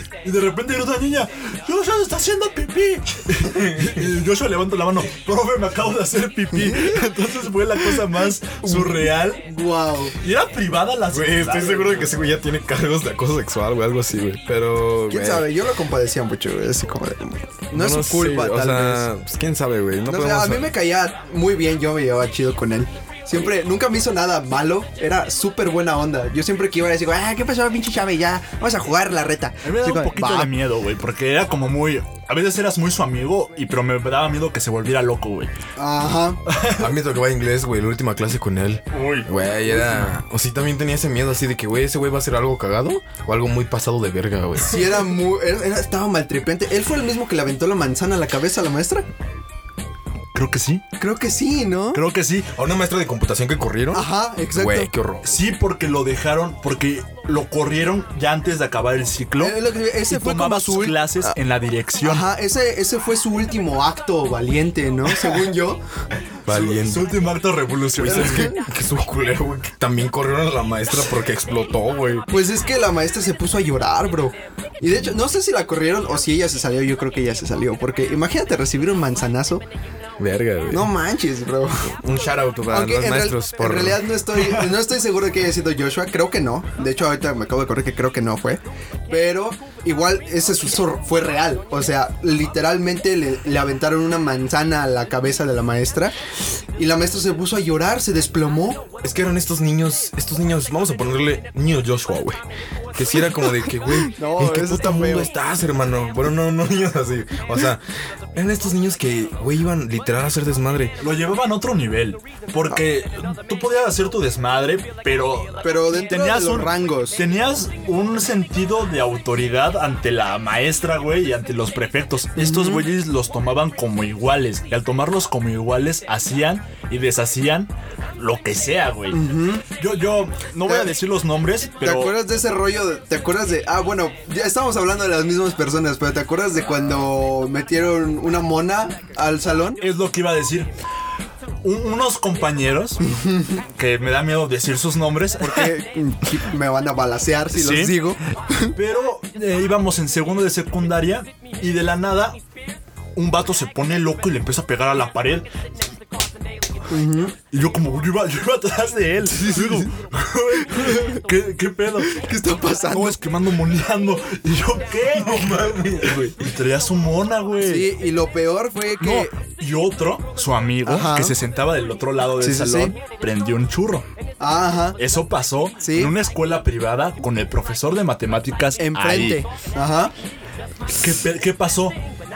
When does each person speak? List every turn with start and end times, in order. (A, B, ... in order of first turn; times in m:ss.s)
0:00.2-0:09.4 A
0:03.4-0:04.1 B
0:06.5-0:07.1 C
0:08.6-0:10.1 C
0:10.2-0:12.1 A
0:11.1-0:15.5 B
0:15.1-0:19.1 C
0:17.7-0:20.7 B
0:20.1-0:30.5 C
0:29.6-0:35.5 A
0:35.8-0:36.4 C
0:36.4-0:36.9 A
0:36.7-0:45.0 B
0:38.9-0:39.3 A
0:39.7-0:40.0 C
0:44.6-0:49.1 C
0:50.3-0:50.8 A
0:51.0-0:52.0 C
0:51.9-0:52.5 A
0:52.5-0:55.4 B
0:53.9-0:54.9 C
0:55.2-1:02.3 A
0:59.4-1:01.3 C
1:02.0-1:05.8 C
1:06.4-1:07.1 B
1:06.5-1:08.5 A
1:08.0-1:12.3 B
1:08.1-1:08.6 C
1:12.3-1:19.6 C
1:20.2-1:20.9 B
1:20.7-1:22.0 C
1:21.8-1:24.2 B
1:22.7-1:36.1 C
1:36.8-1:38.9 C
1:39.0-1:42.4 B
1:42.9-1:47.8 B
1:44.0-1:45.3 C
1:48.3-1:51.0 B
1:51.0-2:09.2 A
1:55.6-1:57.2 C
2:02.4-2:02.8 C
2:09.1-2:09.6 C
2:09.8-2:12.2 A
2:10.7-2:10.9 C
2:11.8-2:19.8 C
2:19.8-2:20.7 A
2:21.6-2:23.0 A
2:23.0-2:23.6 C
2:23.7-2:25.7 A
2:25.4-2:28.7 C
2:27.5-2:28.0 A
2:28.7-2:32.4 A
2:33.2-2:35.5 A
2:36.9-2:37.3 C
2:37.5-2:42.2 A
2:39.3-2:39.9 C
2:40.7-2:41.2 C
2:42.1-2:43.2 C
2:42.9-2:47.9 A
2:45.1-2:46.5 B
2:47.6-2:49.3 C
2:49.0-2:54.1 A
2:50.8-2:51.3 C
2:52.4-2:52.9 C
2:54.4-2:55.0 C
2:55.0-2:59.4 A
2:55.8-2:56.1 C
2:58.8-3:00.1 C
3:01.0-3:02.0 A